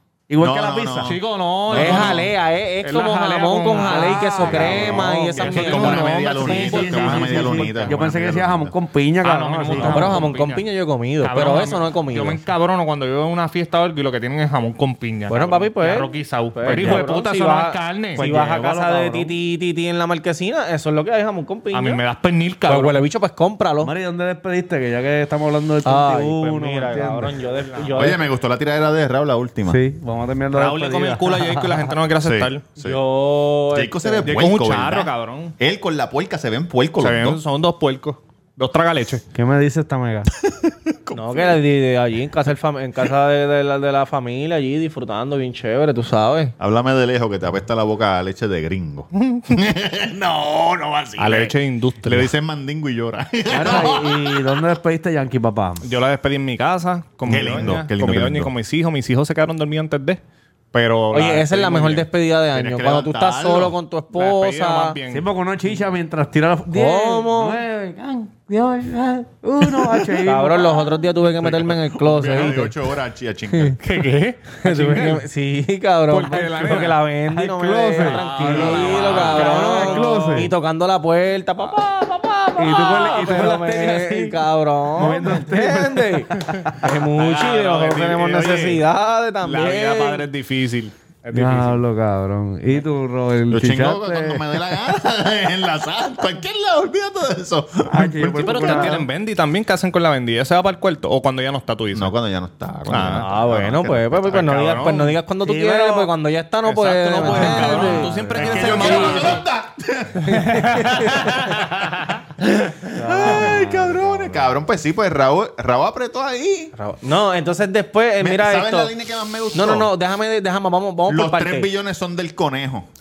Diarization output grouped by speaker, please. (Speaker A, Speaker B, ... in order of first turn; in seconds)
Speaker A: 0.3-1.2, 1.7-2.2, 3.7-5.8, 6.4-10.2, 16.7-17.1, 18.1-19.4, 23.8-27.4, 29.7-31.8, 39.3-40.3, 53.5-55.9, 65.1-70.9, 76.7-80.5, 82.6-84.4, 85.0-86.8, 91.3-94.4, 97.9-99.0, 105.4-106.1, 107.2-109.0, 113.0-114.5
Speaker B: 0.4-1.2, 1.7-2.2, 5.4-8.8, 27.9-29.8, 32.2-33.0, 33.7-37.4, 40.4-41.6, 46.6-54.6, 57.3-58.5, 62.5-63.8, 71.4-73.8, 78.5-79.0, 93.5-99.0, 101.9-104.5, 108.3-110.8, 112.6-116.7, 118.2-119.9, 121.1-122.9
Speaker C: 1.0-8.0, 9.2-10.7, 11.2-18.3, 21.7-23.0, 27.6-27.9, 30.5-32.7, 34.2-35.5, 37.0-39.2, 49.2-49.5, 51.2-52.3, 55.8-60.2, 60.7-62.1, 64.1-65.3, 73.8-75.2, 76.1-77.0, 78.0-80.5, 86.4-88.8, 89.4-91.8, 98.4-102.1, 102.9-103.3, 104.3-105.2, 106.6-109.4, 110.5-112.2
Speaker D: 1.7-6.8, 9.8-12.4, 15.3-22.0, 22.7-23.9, 25.9-28.2, 32.8-34.3, 41.1-46.5, 61.1-65.0, 66.7-67.6, 70.2-72.7, 74.6-90.3, 103.2-109.4, 110.3-111.5, 116.8-118.9, 119.5-121.7